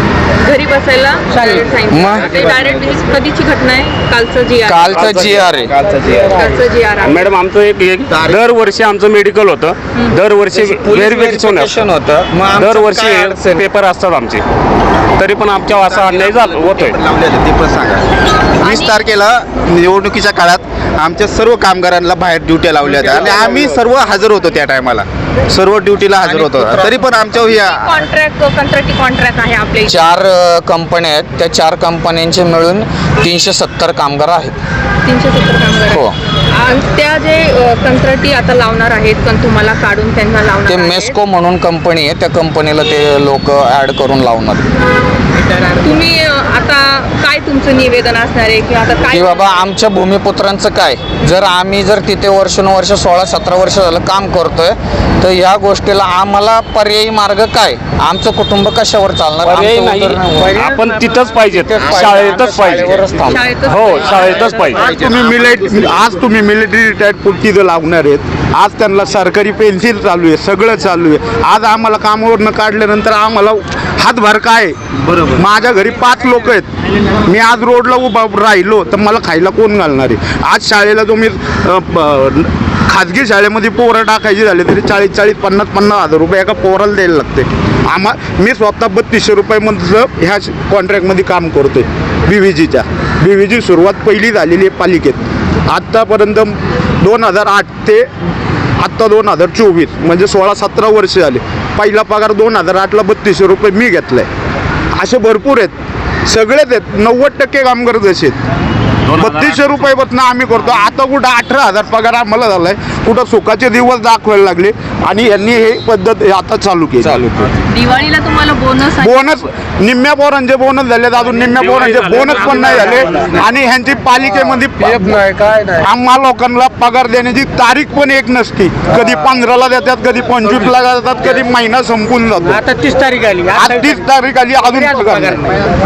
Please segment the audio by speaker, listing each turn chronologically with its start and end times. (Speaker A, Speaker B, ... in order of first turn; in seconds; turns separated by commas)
Speaker A: 0.4-5.2, Speaker B: 1.9-2.3, Speaker B: 4.6-5.7, Speaker C: 5.1-6.3, Speaker A: 6.3-7.3, Speaker D: 7.0-11.8, Speaker B: 10.5-13.7, Speaker D: 12.5-14.4, Speaker D: 15.2-17.0, Speaker C: 15.8-18.1, Speaker C: 18.6-27.8, Speaker A: 18.6-19.0, Speaker A: 27.5-30.1, Speaker B: 29.9-34.6, Speaker A: 35.0-41.2, Speaker B: 35.9-36.2, Speaker B: 40.7-44.6, Speaker A: 45.7-49.5, Speaker B: 49.1-60.4, Speaker D: 59.4-65.0, Speaker B: 61.8-63.4, Speaker A: 63.3-64.7, Speaker E: 64.9-74.8, Speaker E: 75.3-76.7, Speaker E: 77.2-98.1, Speaker E: 98.8-104.3, Speaker E: 105.0-105.7, Speaker E: 106.3-108.4, Speaker E: 109.1-117.5, Speaker A: 117.7-119.4, Speaker E: 119.0-125.2, Speaker D: 121.6-123.4, Speaker E: 125.7-132.6, Speaker F: 132.4-134.0, Speaker E: 133.5-135.5, Speaker F: 134.8-135.4